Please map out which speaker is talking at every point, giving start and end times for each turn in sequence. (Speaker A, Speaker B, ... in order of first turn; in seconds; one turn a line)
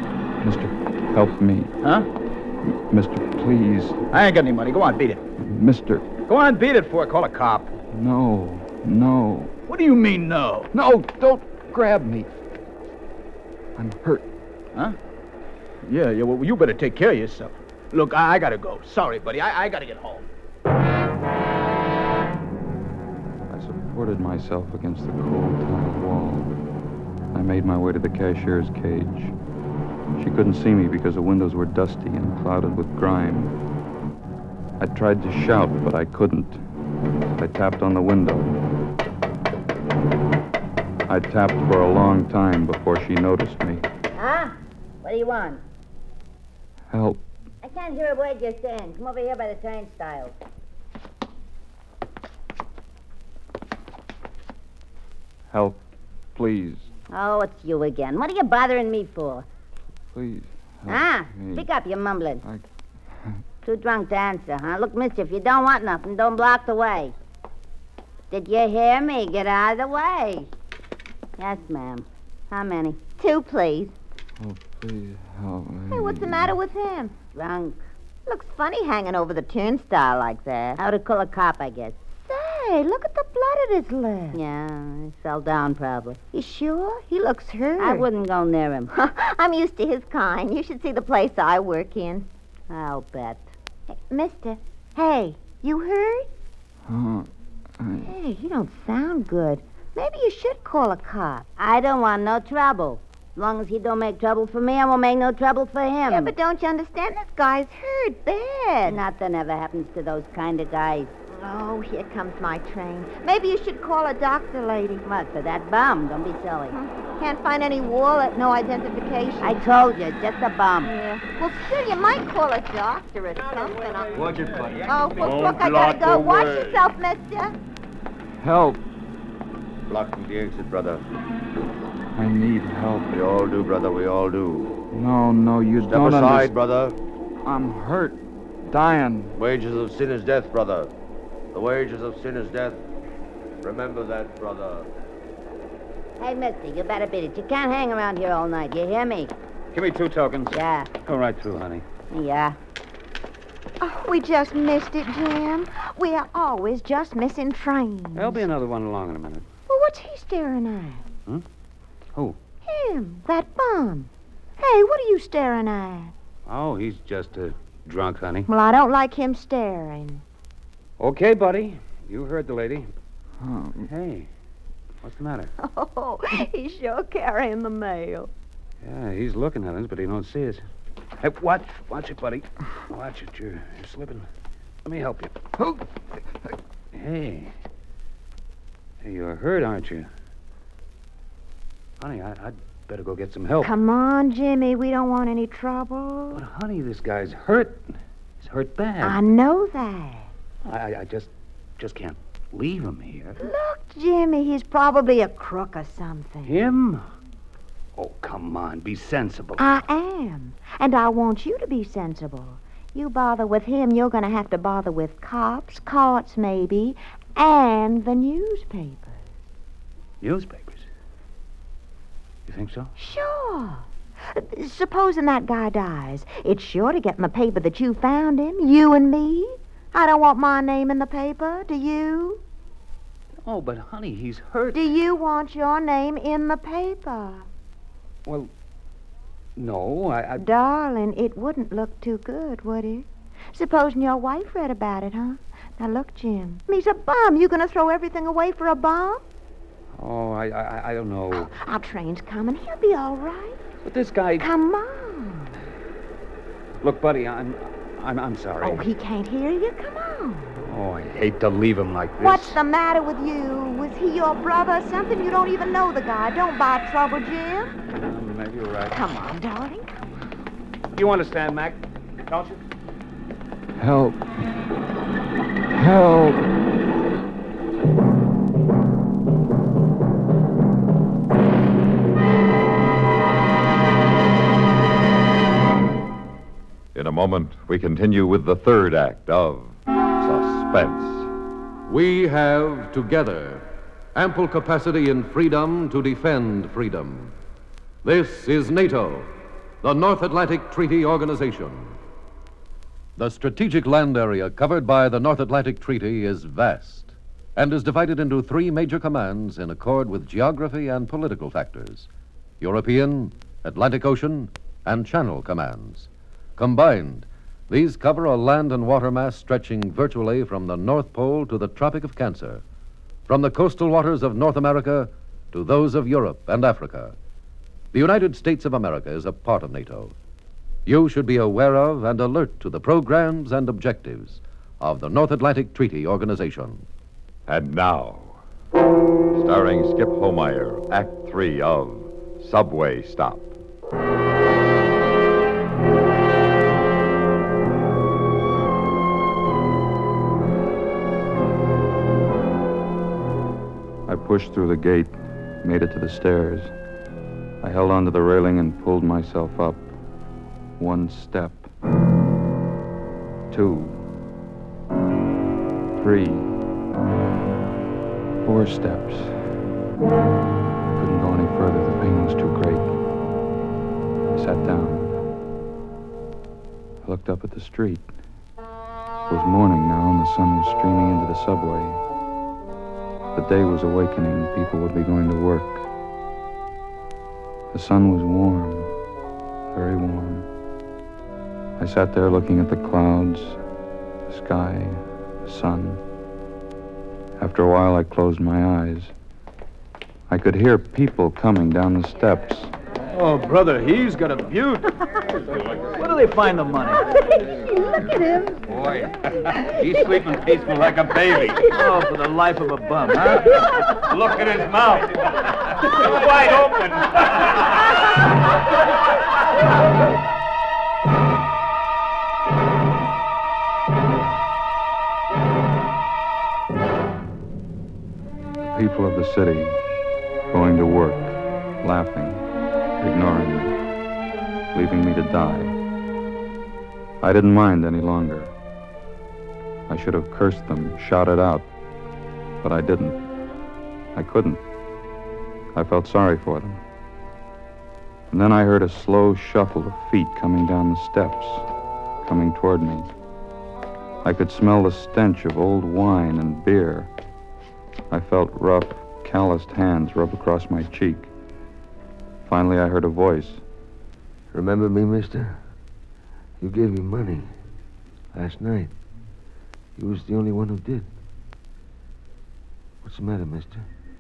Speaker A: 0.4-1.8
Speaker B: 1.8-2.1
Speaker A: 2.6-4.0
Speaker B: 4.1-5.2
Speaker A: 5.4-6.1
Speaker B: 6.3-7.8
Speaker A: 7.9-9.5
Speaker B: 9.7-10.7
Speaker A: 10.7-12.3
Speaker A: 13.8-14.3
Speaker B: 15.8-20.3
Speaker A: 23.5-26.5
Speaker A: 27.3-29.4
Speaker A: 30.2-33.6
Speaker A: 34.8-36.6
Speaker A: 37.4-38.6
Speaker A: 41.1-43.9
Speaker C: 44.2-45.6
Speaker A: 46.9-47.2
Speaker C: 47.6-50.3
Speaker A: 55.5-55.8
Speaker A: 56.4-56.9
Speaker C: 57.1-59.5
Speaker A: 60.1-61.7
Speaker C: 60.9-62.4
Speaker C: 63.6-67.1
Speaker C: 68.3-70.5
Speaker C: 71.4-73.0
Speaker D: 73.2-73.9
Speaker A: 74.4-76.6
Speaker D: 75.9-77.1
Speaker C: 77.3-77.8
Speaker D: 78.3-80.8
Speaker C: 80.8-82.0
Speaker D: 82.2-84.4
Speaker C: 84.3-86.2
Speaker D: 86.3-88.1
Speaker C: 87.8-88.9
Speaker D: 88.9-92.3
Speaker C: 92.7-93.5
Speaker D: 93.9-96.3
Speaker A: 96.9-98.1
Speaker D: 98.0-101.5
Speaker C: 101.6-106.3
Speaker D: 106.1-109.0
Speaker C: 108.9-111.1
Speaker D: 111.3-115.0
Speaker C: 115.0-116.8
Speaker D: 116.7-119.6
Speaker C: 119.4-120.9
Speaker D: 120.8-127.5
Speaker B: 124.2-125.0
Speaker E: 125.1-126.8
Speaker A: 128.4-128.8
Speaker F: 129.9-131.0
Speaker A: 132.2-133.1
Speaker F: 133.1-134.7
Speaker A: 134.9-136.5
Speaker F: 135.8-137.0
Speaker A: 137.4-139.3
Speaker F: 139.3-140.9
Speaker F: 141.5-142.8
Speaker F: 143.6-144.9
Speaker C: 146.2-149.3
Speaker G: 149.7-151.8
Speaker C: 150.5-150.9
Speaker C: 152.1-152.6
Speaker D: 153.8-158.5
Speaker G: 158.2-159.5
Speaker D: 159.7-161.1
Speaker D: 162.7-166.1
Speaker G: 166.5-168.5
Speaker D: 168.5-170.2
Speaker G: 171.0-172.9
Speaker A: 173.4-173.9
Speaker G: 173.8-174.3
Speaker G: 175.0-175.5
Speaker D: 175.6-178.3
Speaker G: 178.8-180.6
Speaker G: 181.2-184.3
Speaker G: 184.8-185.4
Speaker A: 185.6-185.8
Speaker G: 186.9-187.5
Speaker G: 189.0-190.1
Speaker G: 192.0-193.7
Speaker D: 193.6-196.4
Speaker G: 196.3-199.2
Speaker D: 199.0-200.3
Speaker G: 200.7-203.4
Speaker D: 203.4-206.6
Speaker G: 206.5-207.0
Speaker G: 208.0-209.7
Speaker D: 209.6-219.2
Speaker G: 220.2-220.9
Speaker G: 222.5-222.9
Speaker D: 223.0-232.4
Speaker G: 233.4-234.9
Speaker D: 234.7-237.5
Speaker G: 239.6-240.4
Speaker D: 240.4-249.2
Speaker G: 250.0-251.5
Speaker D: 251.3-253.6
Speaker G: 253.8-254.5
Speaker D: 254.4-255.6
Speaker G: 256.8-258.9
Speaker D: 258.6-260.6
Speaker G: 260.7-262.6
Speaker D: 262.2-267.8
Speaker G: 267.9-269.0
Speaker D: 268.9-270.1
Speaker G: 270.9-272.6
Speaker A: 273.8-274.4
Speaker A: 275.7-276.5
Speaker H: 286.9-291.3
Speaker E: 291.9-293.6
Speaker E: 294.1-297.3
Speaker E: 298.1-299.3
Speaker E: 299.8-301.9
Speaker E: 303.2-312.1
Speaker E: 312.6-322.6
Speaker E: 323.3-327.1
Speaker E: 327.9-330.1
Speaker E: 330.9-336.8
Speaker H: 337.5-338.4
Speaker H: 339.3-343.5
Speaker A: 354.1-356.7
Speaker A: 357.6-359.9
Speaker A: 360.8-361.7
Speaker A: 363.5-364.0
Speaker A: 366.0-366.6
Speaker A: 368.4-369.7
Speaker A: 370.9-372.9
Speaker A: 374.3-375.1
Speaker A: 377.0-378.2
Speaker A: 379.3-382.0
Speaker A: 383.3-385.9
Speaker A: 387.7-388.9
Speaker A: 389.7-390.5
Speaker A: 391.8-393.6
Speaker A: 394.3-396.0
Speaker A: 397.4-399.1
Speaker A: 400.3-402.7
Speaker B: 403.1-405.1
Speaker B: 405.9-407.1
Speaker G: 408.7-411.8
Speaker B: 411.7-413.6
Speaker G: 414.0-417.7
Speaker A: 428.6-429.8
Speaker A: 430.5-432.4
Speaker A: 433.0-433.8
Speaker A: 434.7-435.8
Speaker A: 437.2-438.5
Speaker A: 439.9-441.7
Speaker A: 442.6-443.3
Speaker A: 444.1-444.6
Speaker A: 445.7-446.8
Speaker A: 448.3-451.7
Speaker A: 452.2-453.1
Speaker A: 454.2-457.1
Speaker A: 458.1-461.3
Speaker A: 462.4-463.6
Speaker I: 464.5-465.6
Speaker I: 466.6-467.5
Speaker I: 468.3-468.9
Speaker I: 470.0-471.1
Speaker I: 473.0-473.9